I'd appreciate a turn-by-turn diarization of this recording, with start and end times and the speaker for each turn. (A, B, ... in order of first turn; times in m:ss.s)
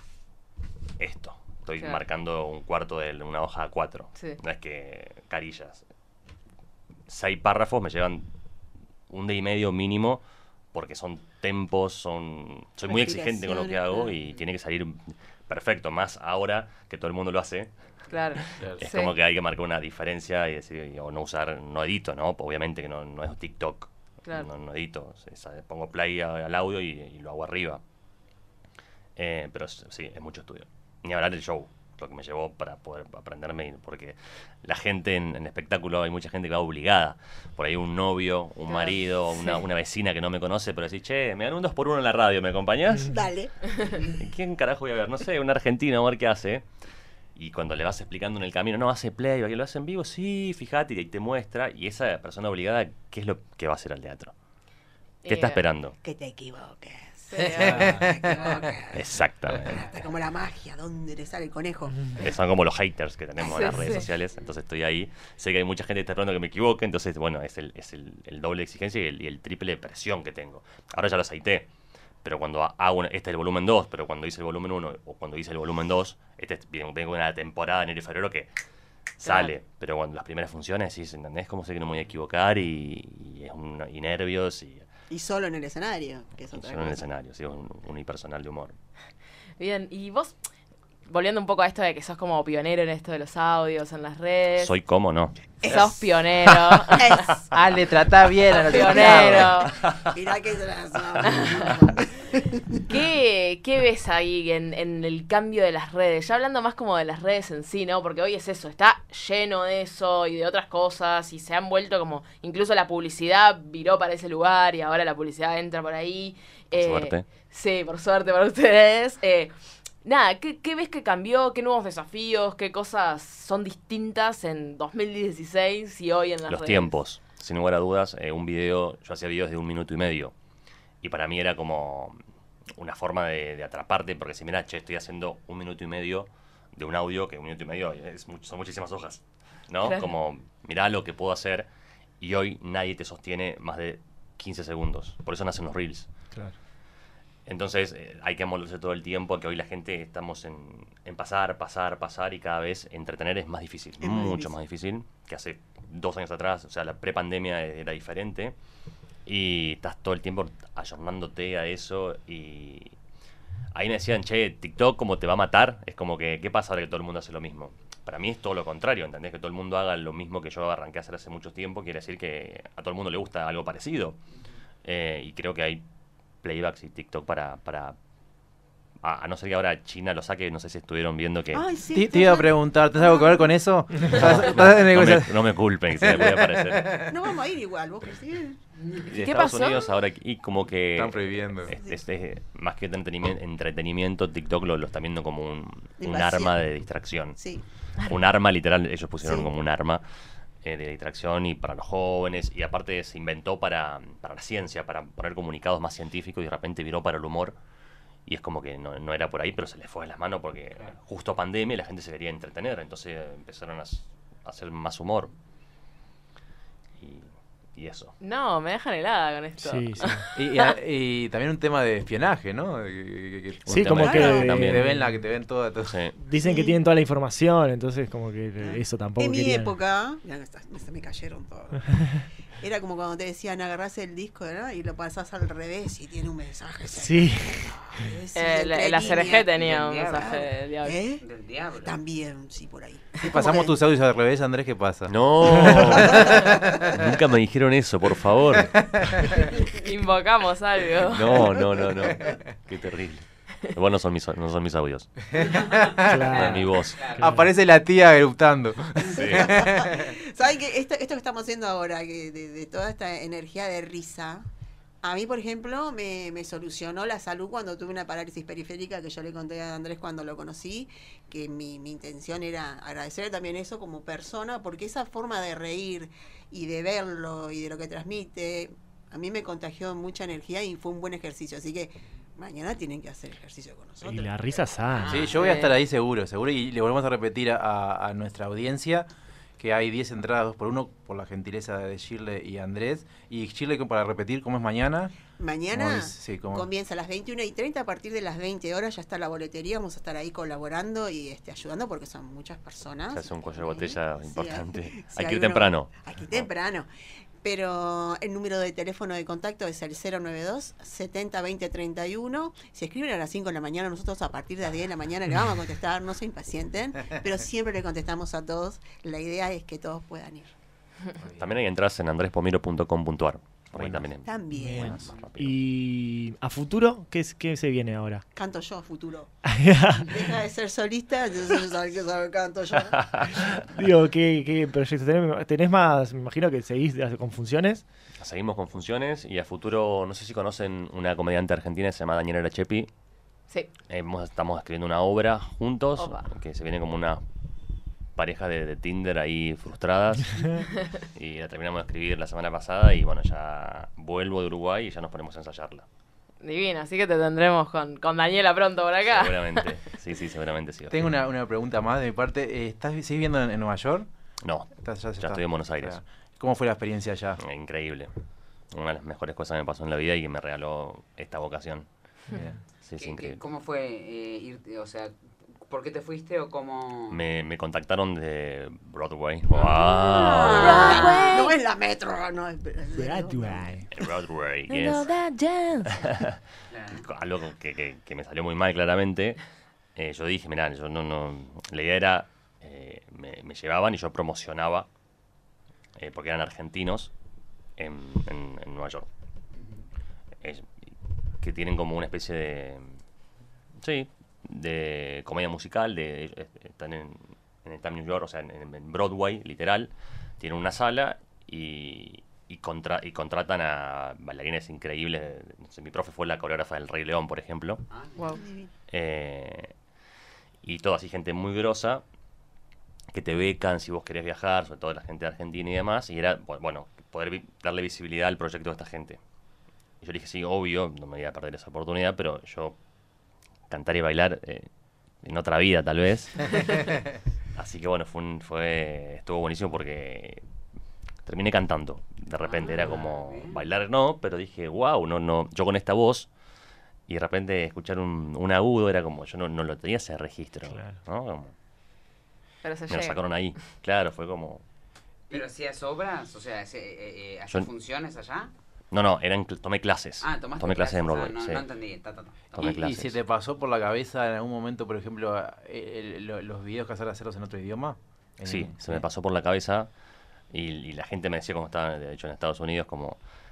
0:01.0-0:05.8 A
0:07.1-0:08.3 A
0:09.1-0:17.7 A
0:12.9-0:14.1 B
0:18.1-0:19.1 C
0:18.4-0:27.8 A
0:18.6-0:18.8 D
0:29.2-0:43.2 A
0:38.7-0:39.6 C
0:43.1-0:43.5 B
0:43.9-0:46.7 A
0:47.4-0:54.3 A
0:55.2-0:55.6 C
0:55.3-0:56.0 A
0:56.0-1:02.3 B
0:57.3-0:58.1 C
0:57.4-0:58.5 D
0:58.9-1:00.0 A
1:02.1-1:11.7 A
1:03.4-1:04.1 C
1:12.2-1:18.5 A
1:19.2-1:24.9 A
1:25.1-1:27.1 B
1:26.5-1:28.7 A
1:29.6-1:30.4 C
1:31.1-1:34.7 C
1:34.6-1:35.4 A
1:35.6-1:36.0 B
1:35.6-1:37.3 C
1:36.9-1:37.5 B
1:37.5-1:39.6 D
1:38.5-1:39.7 C
1:39.0-1:39.5 B
1:39.6-1:40.2 A
1:40.1-1:42.8 B
1:41.2-1:41.8 A
1:41.2-1:41.6 C
1:42.9-1:59.5 C
1:56.7-1:57.3 A
2:00.0-2:07.0 C
2:06.5-2:10.3 A
2:11.0-2:12.2 A
2:12.8-2:21.7 A
2:19.8-2:20.1 C
2:22.2-2:26.1 A
2:27.5-2:38.6 A
2:34.0-2:34.5 B
2:39.3-2:43.0 A
2:43.7-2:54.2 A
2:54.8-2:55.8 A
2:56.4-2:58.0 A
2:59.0-3:01.6 A
3:01.5-3:03.5 B
3:01.9-3:07.1 D
3:04.0-3:07.0 A
3:07.1-3:08.6 B
3:09.1-3:17.4 A
3:09.1-3:09.9 C
3:11.0-3:11.8 D
3:16.0-3:16.6 B
3:17.4-3:17.6 B
3:18.0-3:20.0 A
3:19.2-3:19.5 B
3:20.6-3:27.6 A
3:28.3-3:35.3 A
3:37.0-3:38.1 A
3:38.2-3:40.7 C
3:39.6-3:40.2 E
3:40.4-3:46.0 D
3:43.7-3:44.9 A
3:43.7-3:45.2 E
3:44.0-3:44.5 B
3:45.8-3:46.2 A
3:46.2-3:49.7 E
3:46.4-3:46.8 B
3:48.6-3:59.6 B
3:56.9-3:58.1 E
3:58.3-4:01.0 C
3:59.5-4:00.4 F
4:00.1-4:01.2 B
4:01.2-4:02.0 F
4:01.8-4:03.7 B
4:03.2-4:07.1 D
4:05.1-4:09.0 A
4:08.7-4:09.5 D
4:09.6-4:11.5 C
4:11.0-4:15.3 A
4:15.3-4:20.1 D
4:15.8-4:17.2 F
4:16.1-4:16.6 E
4:16.3-4:17.2 A
4:17.2-4:17.5 E
4:19.1-4:19.6 A
4:19.2-4:24.5 B
4:25.0-4:44.4 B
4:44.0-4:45.3 E
4:45.0-4:45.2 B
4:45.1-4:49.1 D
4:45.4-4:45.7 C
4:49.6-4:55.2 D
4:55.4-5:06.9 B
4:55.7-4:56.7 D
5:03.1-5:06.5 A
5:07.4-5:20.5 B
5:21.2-5:21.5 D
5:21.4-5:24.3 A
5:23.8-5:24.0 D
5:24.2-5:25.1 B
5:24.5-5:28.2 E
5:24.8-5:25.6 A
5:28.4-5:29.3 B
5:29.4-5:30.2 E
5:30.0-5:33.5 B
5:32.9-5:33.5 A
5:33.5-5:37.8 E
5:38.2-5:42.9 A
5:43.9-5:47.2 A
5:46.0-5:46.3 C
5:48.2-5:50.6 A
5:51.2-5:55.8 A
5:56.4-5:59.8 C
5:59.0-6:01.2 A
6:00.9-6:04.1 D
6:04.4-6:06.0 A
6:04.8-6:07.4 D
6:07.4-6:08.1 A
6:08.7-6:11.9 A
6:12.8-6:13.4 A
6:13.0-6:17.2 F
6:17.1-6:21.0 A
6:19.5-6:21.4 F
6:20.2-6:23.8 B
6:20.4-6:21.6 C
6:23.0-6:23.9 E
6:23.9-6:25.1 A
6:24.7-6:26.1 C
6:25.9-6:26.4 A
6:26.7-6:27.1 F
6:26.9-6:29.4 A
6:30.0-6:34.9 A
6:36.0-6:37.1 A
6:37.8-6:39.1 A
6:40.4-6:40.7 A
6:41.4-6:42.9 A
6:43.8-6:57.8 A
6:57.9-6:58.4 F
6:58.2-6:58.4 C
6:58.4-6:58.7 B
6:58.9-6:59.7 A
7:00.6-7:02.0 A
7:03.1-7:09.2 A
7:10.0-7:12.8 A
7:13.7-7:14.7 A
7:15.2-7:16.9 A
7:17.6-7:20.4 A
7:21.2-7:26.3 A
7:22.4-7:23.6 F
7:27.1-7:31.5 A
7:30.7-7:31.0 E
7:32.6-7:33.2 C
7:32.9-7:34.6 A
7:35.3-7:38.5 F
7:38.9-7:41.7 A
7:40.2-7:42.8 F
7:42.6-7:43.2 A
7:42.6-7:49.0 D
7:48.4-7:49.9 A
7:50.5-7:53.2 A